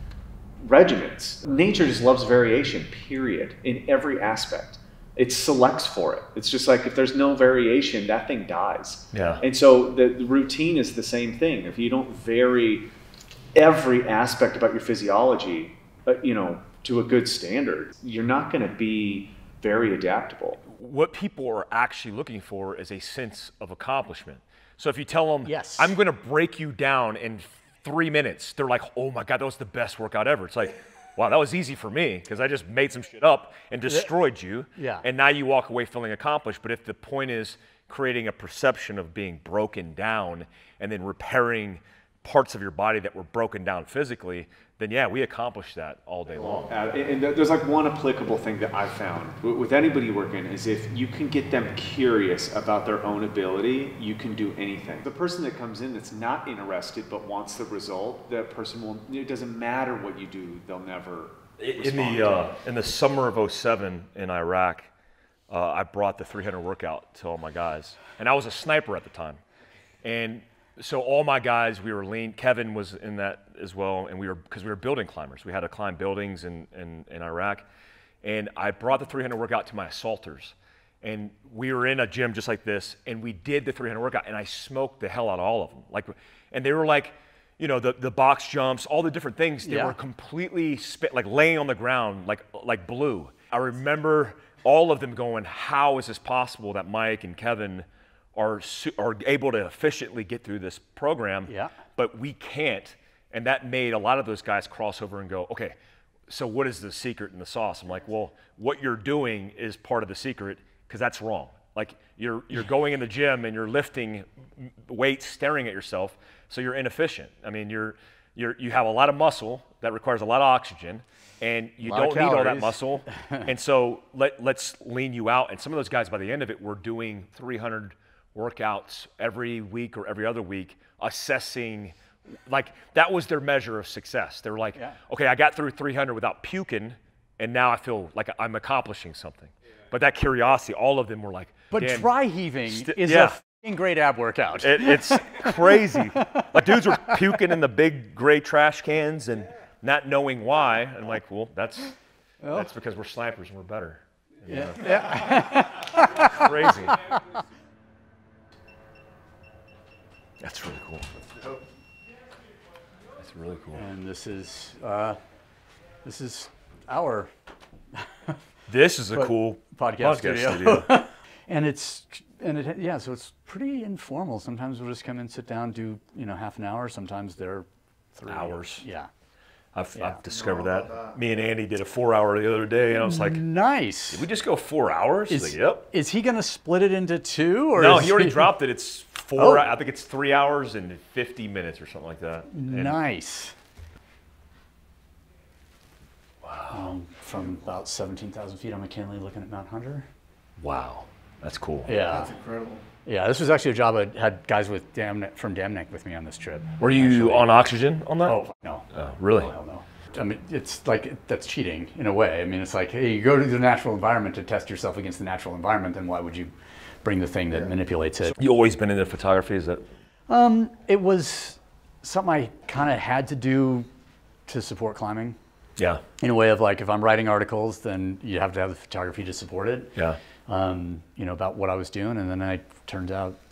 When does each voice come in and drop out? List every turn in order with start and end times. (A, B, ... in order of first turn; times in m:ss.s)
0:00.6-0:12.9 A
0:09.1-0:09.4 B
0:13.5-0:20.6 A
0:20.6-0:46.7 B
0:25.4-0:25.9 C
0:34.8-0:35.0 C
0:46.5-1:02.5 A
1:01.6-1:04.9 B
1:05.5-1:09.4 B
1:10.0-1:17.6 B
1:18.2-1:45.8 B
1:29.6-1:30.0 C
1:41.5-1:41.7 C
1:46.3-2:11.9 B
2:01.8-2:03.5 C
2:12.5-2:22.1 B
2:21.7-2:27.1 C
2:22.6-2:23.4 B
2:24.6-2:31.9 B
2:32.4-2:32.7 C
2:32.5-2:37.0 B
2:34.5-2:37.2 C
2:40.4-2:41.1 B
2:43.2-2:43.8 B
2:43.8-2:45.2 C
2:46.0-2:47.3 C
2:47.9-2:48.4 C
2:48.7-2:50.9 B
2:49.1-2:59.1 C
2:58.3-2:58.8 B
2:59.7-3:03.4 B
2:59.9-3:00.2 C
3:03.0-3:04.2 C
3:04.1-3:05.8 B
3:05.3-3:08.5 C
3:07.8-3:13.0 B
3:09.4-3:09.7 C
3:12.5-3:13.5 C
3:16.4-3:16.9 B
3:16.7-3:20.1 C
3:20.6-3:22.0 B
3:21.8-3:22.4 C
3:22.9-3:27.5 C
3:26.8-3:28.4 B
3:28.2-3:36.5 C
3:28.9-3:29.5 B
3:37.0-3:38.3 C
3:38.3-3:39.8 B
3:40.3-3:43.9 C
3:44.5-3:45.4 C
3:45.8-3:46.0 B
3:46.2-3:53.4 C